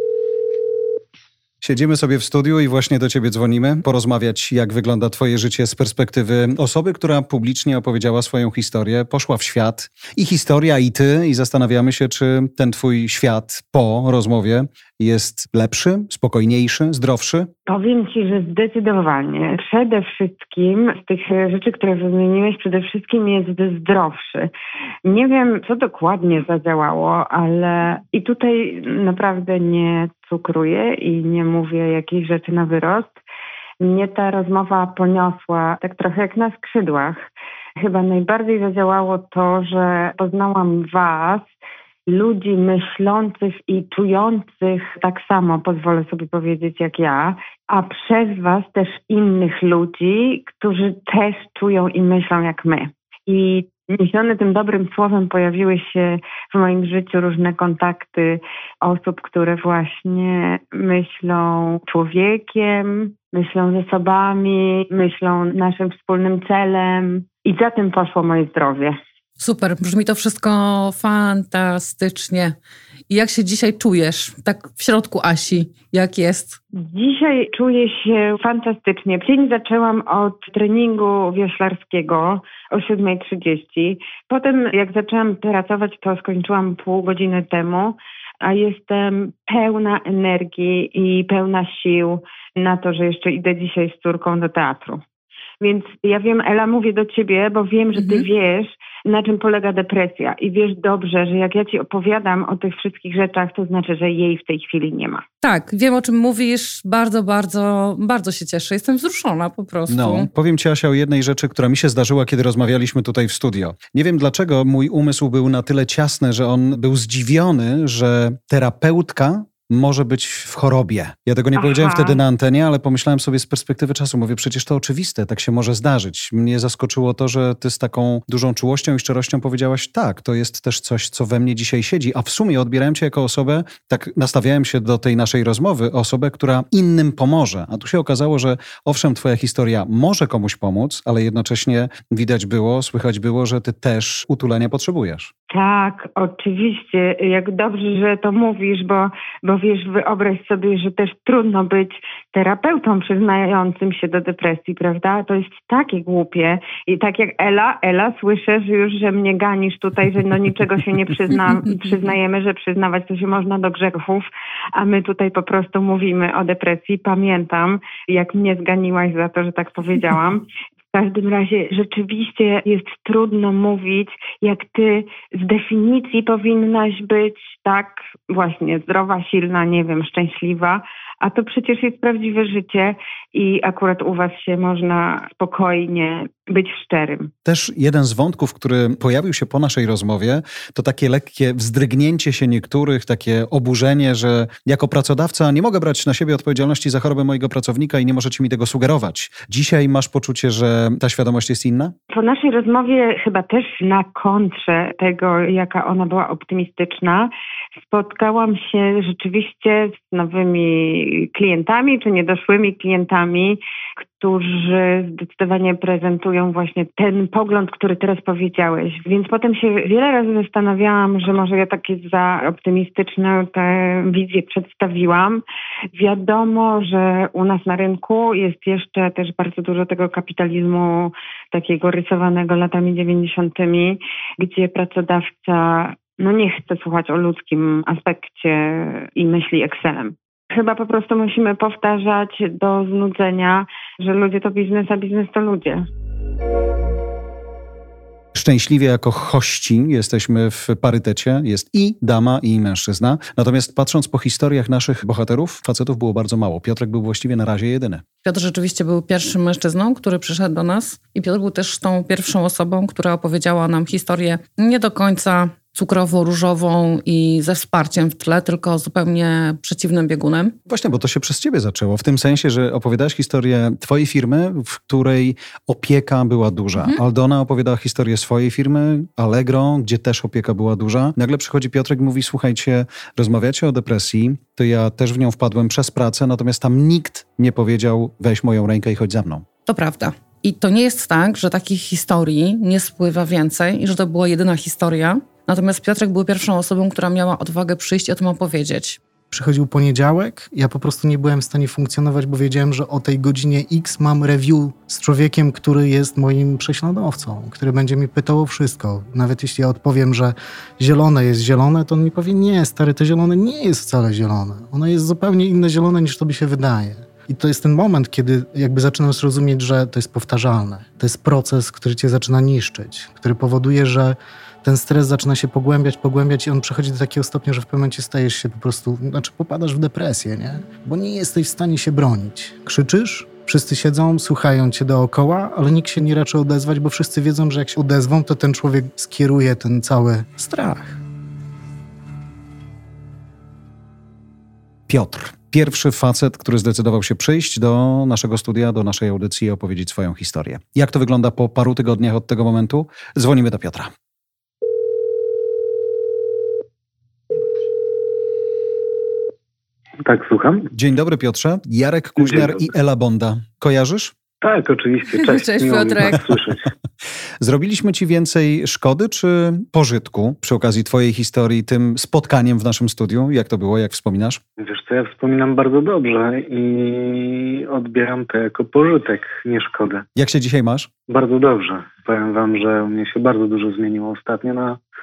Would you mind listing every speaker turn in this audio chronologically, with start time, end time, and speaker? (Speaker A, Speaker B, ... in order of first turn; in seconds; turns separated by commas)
Speaker A: 1.6-17.5, Speaker B: 17.7-24.5, Speaker B: 25.0-33.2, Speaker B: 33.8-37.2, Speaker B: 37.8-41.5, Speaker B: 42.1-69.0, Speaker C: 69.4-72.5, Speaker C: 73.1-76.6, Speaker B: 76.7-95.0, Speaker B: 95.6-105.2, Speaker C: 98.0-98.2, Speaker C: 105.4-110.3, Speaker A: 109.9-145.3, Speaker B: 121.5-122.2, Speaker B: 145.5-187.3, Speaker A: 187.4-201.9, Speaker B: 202.1-245.8, Speaker A: 248.3-258.0, Speaker C: 258.2-270.6, Speaker A: 270.7-289.4, Speaker C: 289.6-299.0, Speaker D: 299.3-341.0, Speaker A: 344.9-353.9, Speaker E: 360.0-360.7, Speaker A: 360.7-364.1, Speaker E: 362.2-362.6, Speaker E: 364.4-366.7, Speaker C: 365.1-366.2, Speaker A: 367.4-374.4, Speaker E: 374.6-380.1, Speaker A: 380.1-380.9, Speaker E: 381.1-384.8